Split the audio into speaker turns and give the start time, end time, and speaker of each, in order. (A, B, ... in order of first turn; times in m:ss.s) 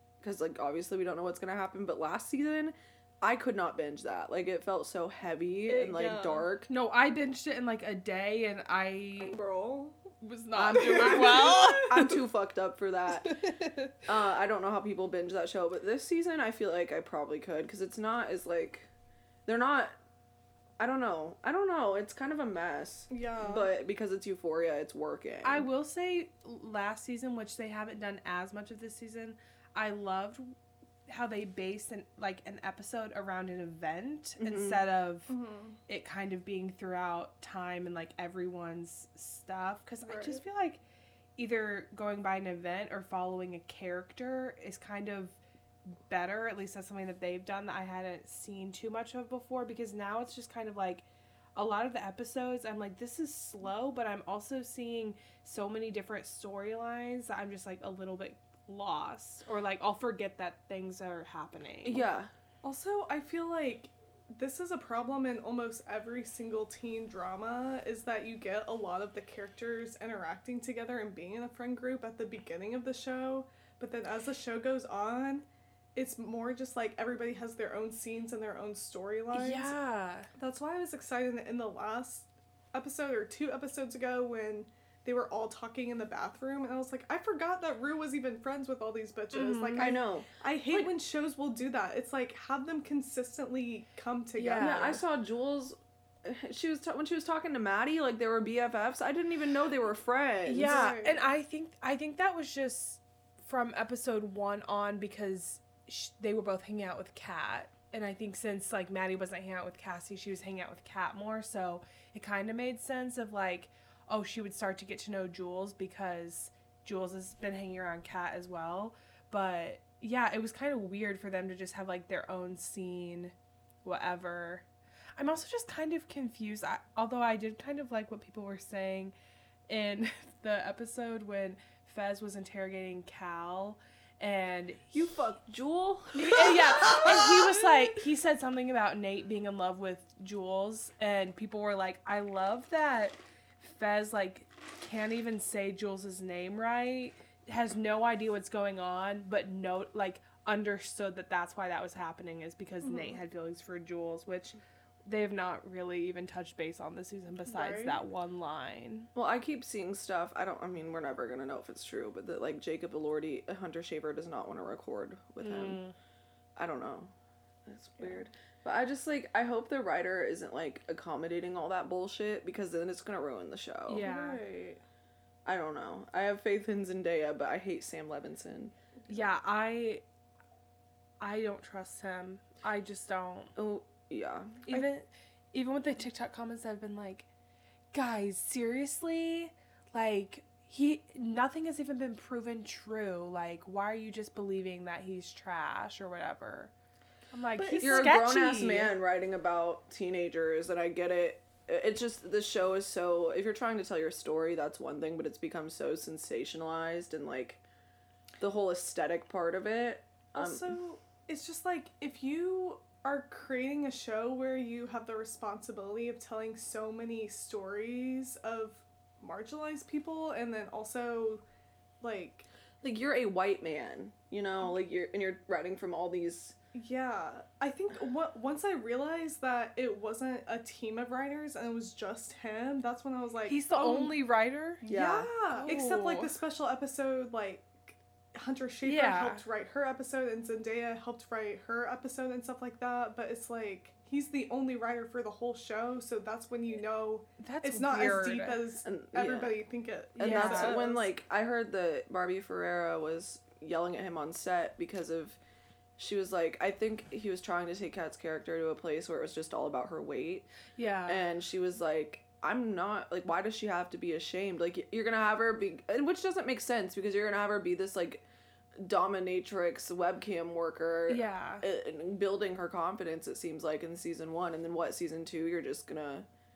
0:00.2-0:06.7 A
0:05.7-0:06.5 B
0:06.7-0:09.4 C
0:09.2-0:10.1 B
0:10.2-0:12.1 C
0:10.5-0:13.4 A
0:10.7-0:12.0 B
0:13.5-0:13.9 C
0:14.0-0:18.9 A
0:19.4-0:19.9 A
0:20.8-0:25.7 A
0:23.1-0:23.7 B
0:25.4-0:30.5 C
0:31.1-0:35.3 C
0:34.4-0:34.8 A
0:35.3-0:35.8 B
0:35.9-0:40.8 C
0:40.0-0:40.4 B
0:41.4-0:45.4 C
0:46.0-1:02.1 C
1:01.8-1:02.3 A
1:02.6-1:19.7 B
1:19.3-1:20.3 C
1:20.4-1:35.0 B
1:29.3-1:29.9 C
1:29.8-1:30.9 A
1:34.3-1:35.0 C
1:34.6-1:40.9 A
1:40.4-2:04.6 C
1:40.6-1:41.2 B
2:05.2-2:09.1 C
2:09.7-2:15.2 C
2:14.9-2:17.7 A
2:16.1-2:39.1 C
2:32.8-2:33.2 B
2:37.5-2:38.0 B
2:39.1-2:45.8 A
2:45.4-2:45.9 C
2:46.6-2:47.1 A
2:47.6-2:54.0 A
2:53.9-2:54.4 C
2:54.0-2:54.8 B
2:55.4-2:58.7 A
2:59.1-3:00.0 C
3:01.2-3:03.5 C
3:03.6-3:04.9 A
3:04.7-3:07.3 C
3:07.9-3:16.7 C
3:17.3-3:18.9 C
3:17.6-3:18.0 B
3:17.8-3:27.6 A
3:28.4-3:30.8 A
3:30.3-3:41.4 B
3:42.0-3:42.4 B
3:42.8-3:46.5 A
3:46.7-3:54.2 B
3:53.4-3:54.9 C
3:54.8-4:11.0 B
3:54.9-3:55.7 A
3:55.5-3:56.3 C
3:58.8-3:59.4 C
4:07.4-4:08.6 C
4:08.8-4:09.6 A
4:10.2-4:10.8 C
4:10.2-4:15.4 A
4:16.0-4:20.5 A
4:20.8-4:21.3 C
4:21.0-4:28.2 A
4:28.8-4:36.3 A
4:31.1-4:31.6 C